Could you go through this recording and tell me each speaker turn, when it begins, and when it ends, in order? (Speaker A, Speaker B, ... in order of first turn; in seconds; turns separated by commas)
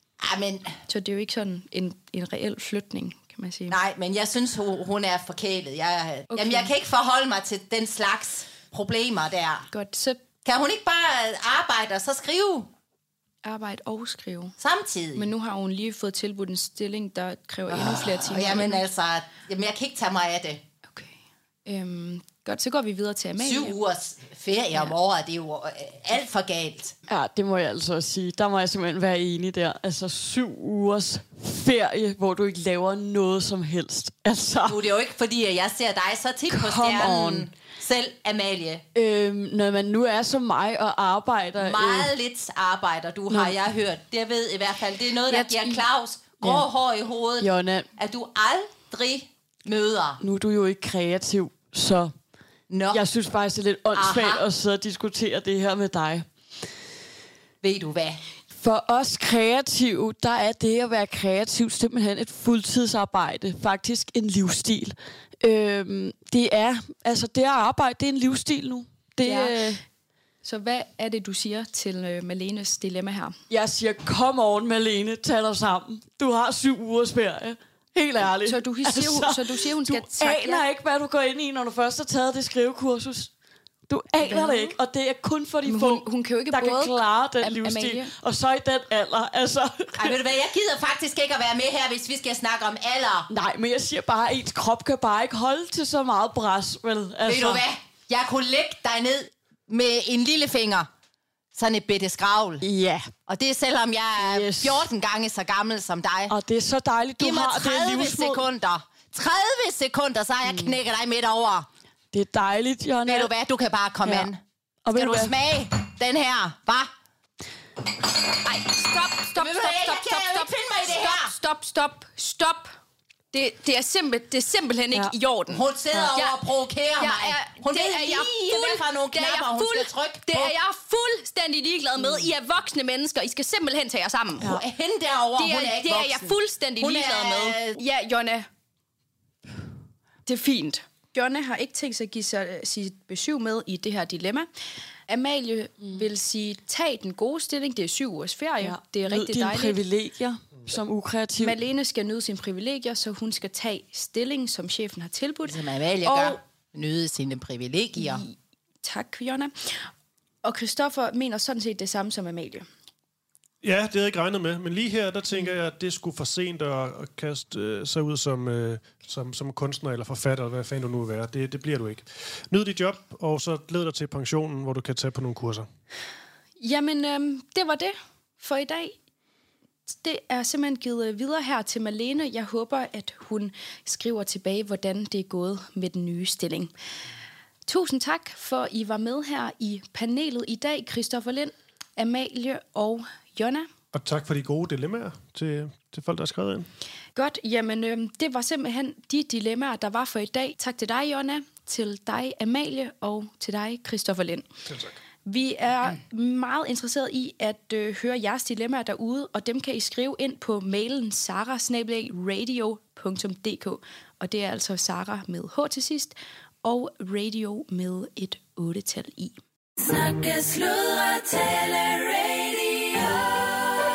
Speaker A: 0.2-0.8, Speaker B: 0.9-3.8, Speaker A: 3.7-9.7, Speaker B: 6.3-6.7, Speaker B: 9.7-10.2, Speaker A: 10.4-12.7, Speaker B: 13.4-14.5, Speaker A: 14.6-15.3, Speaker B: 15.1-18.8, Speaker A: 17.7-20.6, Speaker B: 20.9-23.7, Speaker A: 23.4-26.9, Speaker C: 27.1-34.9, Speaker A: 34.7-38.8, Speaker C: 36.5-37.5, Speaker C: 38.9-42.1, Speaker A: 41.6-50.2, Speaker C: 43.3-43.5, Speaker B: 45.3-45.9, Speaker C: 46.4-46.7, Speaker C: 47.4-47.9, Speaker C: 50.2-52.1, Speaker A: 52.7-53.0, Speaker C: 52.9-56.3, Speaker A: 53.9-54.4, Speaker A: 57.6-58.2, Speaker C: 58.6-69.8, Speaker B: 69.2-69.6, Speaker B: 70.4-73.4, Speaker C: 73.5-83.3, Speaker B: 78.4-80.6, Speaker C: 83.9-90.2, Speaker B: 84.2-84.8, Speaker B: 85.7-88.1, Speaker A: 90.0-93.3, Speaker C: 93.3-97.6, Speaker A: 97.2-100.9, Speaker A: 101.5-102.6, Speaker C: 102.6-103.1, Speaker A: 103.3-106.3, Speaker C: 104.2-104.9, Speaker C: 106.3-108.4, Speaker A: 107.2-111.7, Speaker C: 110.4-110.7, Speaker C: 112.1-113.3, Speaker A: 113.0-114.4, Speaker C: 114.0-114.3, Speaker C: 114.8-115.3, Speaker A: 114.9-116.9, Speaker B: 118.4-122.7, Speaker A: 119.4-121.3, Speaker B: 123.3-126.4, Speaker A: 125.5-130.5, Speaker B: 127.0-134.6, Speaker A: 134.4-137.8, Speaker B: 135.4-138.5, Speaker B: 140.2-144.5, Speaker B: 145.1-149.8, Speaker C: 148.6-151.6, Speaker B: 151.4-156.4, Speaker A: 155.4-158.2, Speaker B: 158.0-159.9, Speaker B: 160.4-162.7, Speaker D: 163.6-175.7, Speaker B: 176.6-178.9, Speaker B: 179.9-186.7, Speaker B: 187.7-193.7, Speaker D: 193.9-196.7, Speaker B: 197.2-204.5, Speaker D: 204.7-205.0, Speaker B: 205.2-219.4, Speaker C: 220.1-220.5, Speaker C: 221.1-222.4